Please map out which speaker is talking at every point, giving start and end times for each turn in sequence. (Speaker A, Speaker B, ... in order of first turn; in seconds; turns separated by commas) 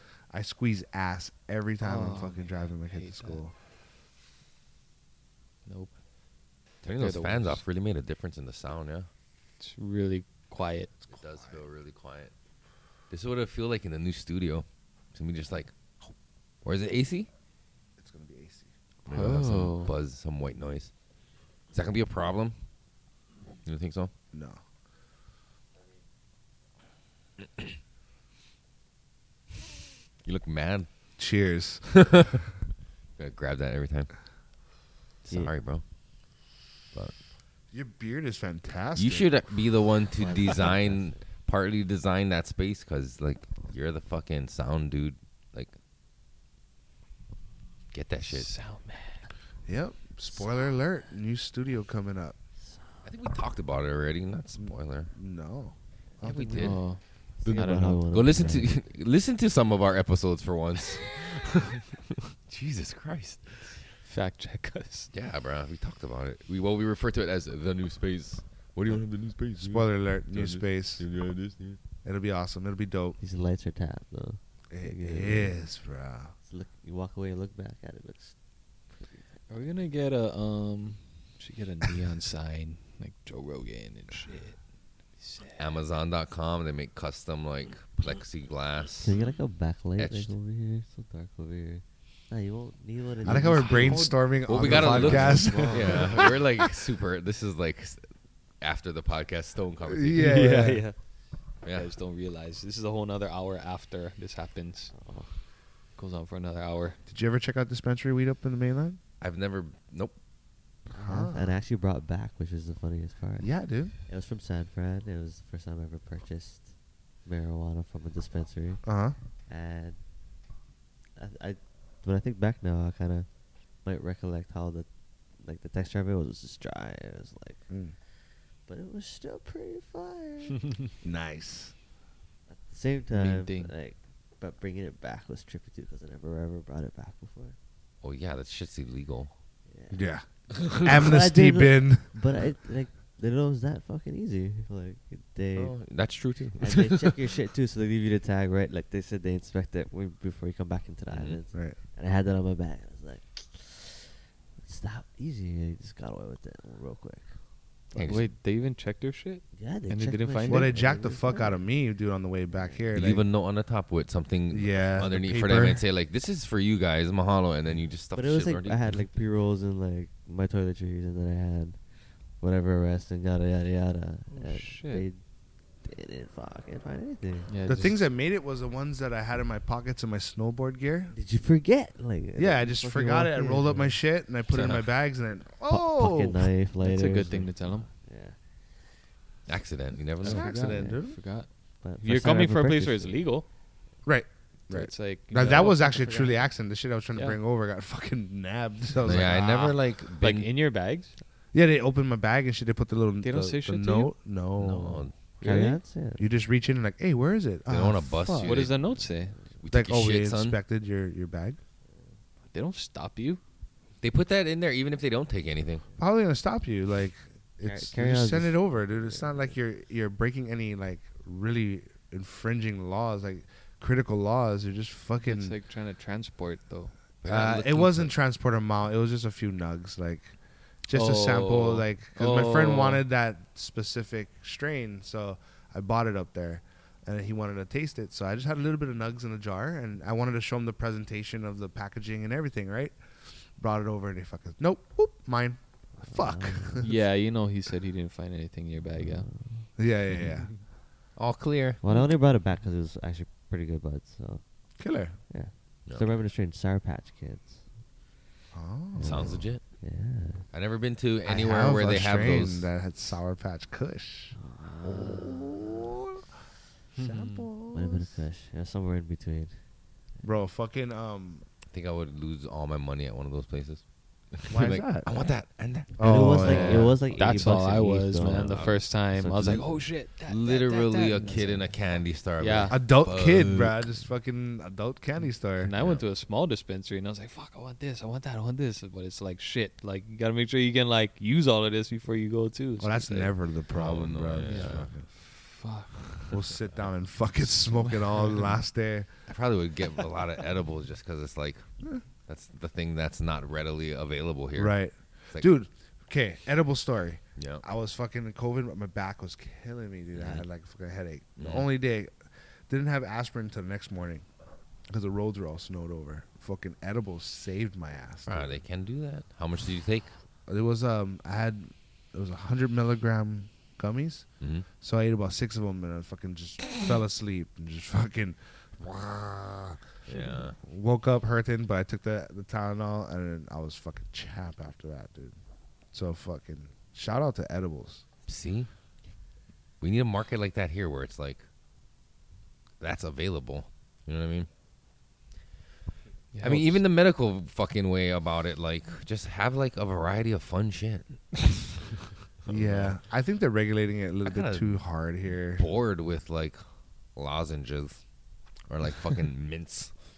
Speaker A: 0.3-3.5, Speaker B: 1.8-3.4, Speaker B: 5.7-5.9, Speaker C: 6.8-9.1, Speaker B: 7.0-7.6, Speaker B: 9.6-10.9, Speaker A: 11.1-11.6, Speaker C: 11.1-12.3, Speaker C: 13.1-16.1, Speaker C: 16.6-17.3, Speaker A: 18.0-18.7, Speaker C: 19.1-20.9, Speaker B: 19.1-19.9, Speaker C: 21.7-22.6, Speaker C: 23.6-24.1, Speaker A: 24.3-24.6, Speaker C: 30.2-30.9, Speaker A: 31.2-32.4, Speaker C: 32.0-32.4, Speaker C: 33.2-34.1, Speaker C: 35.2-35.8, Speaker A: 37.7-39.3, Speaker C: 39.0-45.7, Speaker D: 40.1-41.2, Speaker C: 47.9-48.5, Speaker B: 48.2-49.3, Speaker A: 49.7-52.4, Speaker C: 53.0-55.1, Speaker A: 54.6-56.8, Speaker C: 56.2-56.8, Speaker B: 56.6-58.0, Speaker C: 57.4-63.8, Speaker D: 57.4-58.8, Speaker B: 64.0-65.1, Speaker C: 65.1-71.8, Speaker A: 69.6-71.0, Speaker A: 72.0-73.2, Speaker D: 73.2-75.7, Speaker A: 74.7-76.3, Speaker D: 76.4-78.3, Speaker D: 78.9-79.3, Speaker B: 79.5-84.6, Speaker B: 85.2-85.7, Speaker C: 85.6-89.1, Speaker D: 89.0-96.2, Speaker C: 90.0-90.3, Speaker A: 93.2-96.5, Speaker C: 93.3-98.0, Speaker B: 93.4-94.1, Speaker B: 94.8-96.0, Speaker C: 98.6-100.3, Speaker A: 99.9-100.8, Speaker B: 100.2-101.0, Speaker C: 101.6-101.9, Speaker B: 101.7-104.9, Speaker D: 104.9-105.3, Speaker B: 106.0-107.0, Speaker A: 107.1-109.0, Speaker C: 109.2-110.2, Speaker D: 110.9-118.9, Speaker A: 111.0-111.5, Speaker A: 113.4-113.9, Speaker A: 118.8-119.2, Speaker D: 119.5-120.0, Speaker D: 121.2-127.7, Speaker A: 127.7-127.9, Speaker D: 128.6-130.7, Speaker A: 131.0-131.7, Speaker D: 132.5-137.6, Speaker B: 133.1-133.7, Speaker C: 138.0-139.3, Speaker D: 139.7-140.1, Speaker A: 139.9-142.1, Speaker D: 140.6-145.9, Speaker C: 145.5-147.2, Speaker D: 146.6-157.3, Speaker C: 151.1-151.4, Speaker C: 157.9-158.3, Speaker B: 157.9-160.7, Speaker D: 159.5-161.6, Speaker A: 160.5-163.2, Speaker D: 162.5-162.9, Speaker C: 162.9-169.0, Speaker A: 164.5-165.8, Speaker D: 168.1-175.2, Speaker B: 174.3-175.1, Speaker D: 175.8-177.5, Speaker B: 177.5-178.1, Speaker A: 177.7-181.1, Speaker D: 181.1-184.0, Speaker A: 182.3-186.5, Speaker C: 184.5-184.9, Speaker D: 185.7-188.4, Speaker B: 186.8-187.9, Speaker C: 189.5-190.5, Speaker D: 190.2-191.2, Speaker A: 190.2-191.2, Speaker B: 190.2-193.4, Speaker D: 191.8-193.2, Speaker A: 194.0-199.8, Speaker B: 194.7-196.1, Speaker D: 195.4-196.5, Speaker B: 197.1-197.4, Speaker C: 199.0-200.5, Speaker B: 200.2-201.2, Speaker A: 201.5-205.7, Speaker B: 203.2-204.1, Speaker C: 204.6-205.1, Speaker B: 205.4-205.8, Speaker D: 205.4-206.3, Speaker A: 206.2-208.6, Speaker C: 207.7-208.7, Speaker B: 208.2-209.4, Speaker D: 208.8-209.6, Speaker C: 209.6-210.6, Speaker A: 209.7-211.6, Speaker D: 211.8-212.2, Speaker B: 212.5-213.4, Speaker C: 214.0-215.8, Speaker A: 216.0-225.6, Speaker D: 217.6-219.6, Speaker B: 225.2-226.9, Speaker C: 227.2-228.1, Speaker A: 227.3-230.3, Speaker A: 230.9-243.0, Speaker B: 230.9-233.0, Speaker A: 243.5-246.9, Speaker D: 246.1-246.9, Speaker B: 246.8-249.3, Speaker D: 248.9-250.3, Speaker A: 249.8-250.6, Speaker C: 251.2-251.8, Speaker D: 251.8-254.5, Speaker A: 254.8-255.2, Speaker D: 255.3-257.7, Speaker A: 258.5-259.4, Speaker D: 258.9-260.5, Speaker C: 259.0-259.6, Speaker C: 260.5-262.7, Speaker A: 261.2-266.2, Speaker D: 264.3-265.9, Speaker B: 266.9-267.5, Speaker A: 266.9-268.1, Speaker D: 267.7-269.6, Speaker A: 270.2-271.4, Speaker C: 271.7-277.6, Speaker A: 274.5-275.1, Speaker A: 276.0-277.0, Speaker D: 276.0-279.8, Speaker B: 276.4-281.7, Speaker C: 278.2-278.9, Speaker C: 280.2-283.8, Speaker D: 281.2-282.0, Speaker B: 282.4-282.8, Speaker A: 282.7-285.7, Speaker B: 285.6-293.3, Speaker C: 285.8-286.0, Speaker A: 292.8-295.1, Speaker C: 293.7-294.9, Speaker B: 294.4-296.4, Speaker A: 296.3-299.1, Speaker B: 297.8-298.5, Speaker C: 299.3-301.6, Speaker C: 302.3-305.5, Speaker A: 304.6-312.2, Speaker C: 307.4-307.6, Speaker C: 310.1-310.4, Speaker C: 311.4-311.7, Speaker A: 312.7-314.3, Speaker A: 314.9-318.6, Speaker C: 318.2-320.1, Speaker A: 320.5-324.3, Speaker C: 324.4-324.6, Speaker A: 324.8-335.4, Speaker C: 330.1-330.6, Speaker A: 335.9-338.0, Speaker C: 338.3-338.7, Speaker C: 339.8-341.4, Speaker C: 342.8-344.5, Speaker B: 346.3-346.8, Speaker C: 346.4-351.5, Speaker C: 352.4-353.0, Speaker A: 352.5-355.7, Speaker C: 354.2-356.6, Speaker C: 357.1-358.0, Speaker C: 358.7-359.9